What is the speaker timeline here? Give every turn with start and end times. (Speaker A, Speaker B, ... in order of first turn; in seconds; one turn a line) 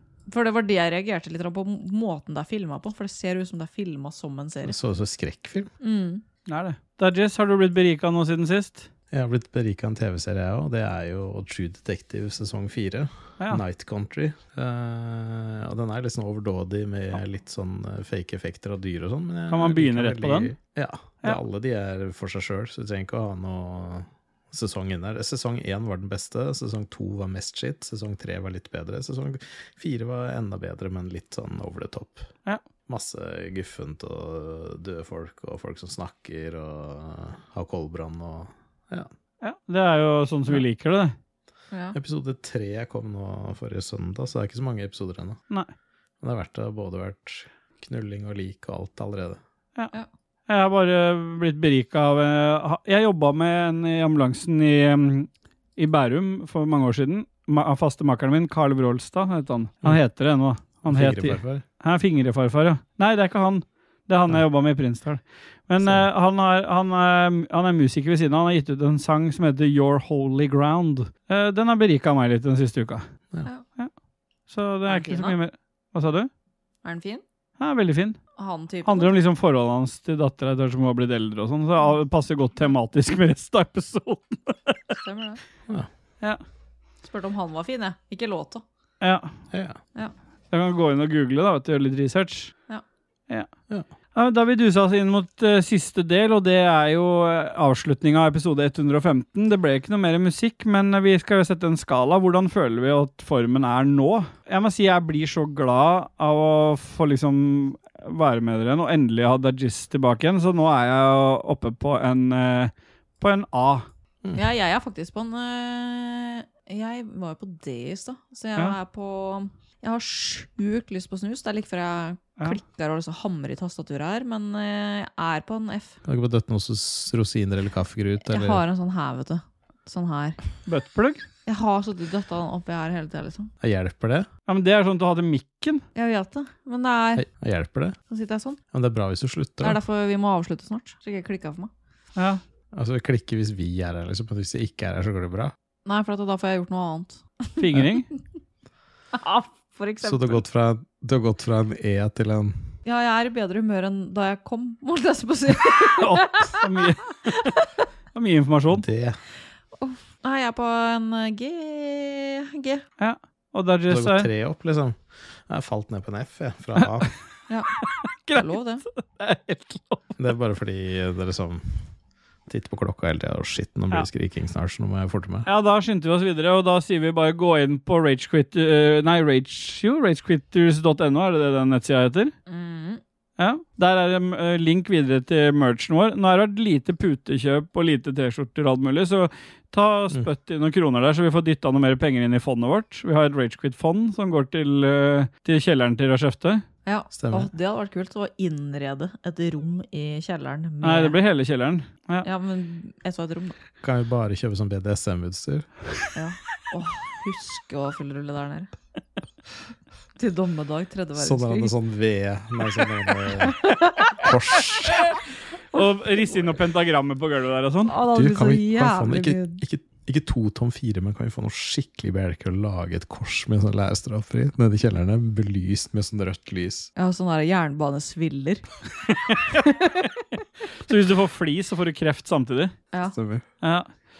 Speaker A: 0.3-4.8
Speaker B: 4.6-5.7
Speaker A: 5.8-6.2
Speaker C: 6.5-8.9
Speaker B: 9.1-32.3
Speaker C: 19.5-20.5
Speaker B: 32.9-39.1
Speaker C: 39.4-41.1
Speaker A: 41.7-42.0
Speaker B: 41.9-45.4
Speaker B: 46.2-49.4
Speaker C: 50.5-73.0
Speaker B: 60.8-61.6
Speaker B: 65.8-66.1
Speaker C: 74.5-76.3
Speaker A: 74.9-75.4
Speaker A: 76.8-77.2
Speaker C: 77.6-78.2
Speaker A: 78.4-79.1
Speaker C: 78.8-84.9
Speaker A: 85.0-85.4
Speaker A: 87.0-88.6
Speaker C: 89.0-89.3
Speaker B: 89.5-89.8
Speaker C: 90.5-92.6
Speaker C: 94.1-113.9
Speaker A: 114.3-126.0
Speaker B: 126.0-128.6
Speaker A: 128.2-130.4
Speaker C: 130.7-131.2
Speaker A: 131.4-133.5
Speaker B: 133.6-134.3
Speaker C: 134.5-135.8
Speaker A: 135.9-137.2
Speaker B: 137.2-137.9
Speaker A: 138.1-138.6
Speaker B: 138.7-139.8
Speaker A: 139.6-141.7
Speaker C: 142.2-142.4
Speaker B: 142.7-145.5
Speaker A: 145.8-147.2
Speaker C: 147.6-148.1
Speaker A: 149.1-150.4
Speaker B: 150.0-152.7
Speaker A: 152.8-156.7
Speaker C: 156.0-157.2
Speaker C: 158.1-158.8
Speaker B: 158.7-159.2
Speaker A: 159.8-162.8
Speaker C: 163.0-164.3
Speaker B: 163.9-167.1
Speaker A: 167.5-167.8
Speaker C: 168.2-170.2
Speaker A: 168.3-168.8
Speaker B: 170.2-171.8
Speaker B: 172.5-175.5
Speaker C: 175.4-182.3
Speaker A: 182.5-183.0
Speaker C: 183.4-196.6
Speaker A: 196.8-201.2
Speaker B: 197.1-197.5
Speaker C: 200.8-202.2
Speaker A: 202.2-203.6
Speaker B: 203.8-205.7
Speaker A: 206.1-208.7
Speaker A: 210.2-211.7
Speaker B: 211.2-213.6
Speaker B: 214.2-215.0
Speaker C: 215.7-217.9
Speaker A: 217.8-219.6
Speaker B: 218.1-226.9
Speaker A: 226.9-228.6
Speaker A: 229.5-230.0
Speaker C: 230.8-232.8
Speaker B: 233.1-233.4
Speaker C: 233.6-233.9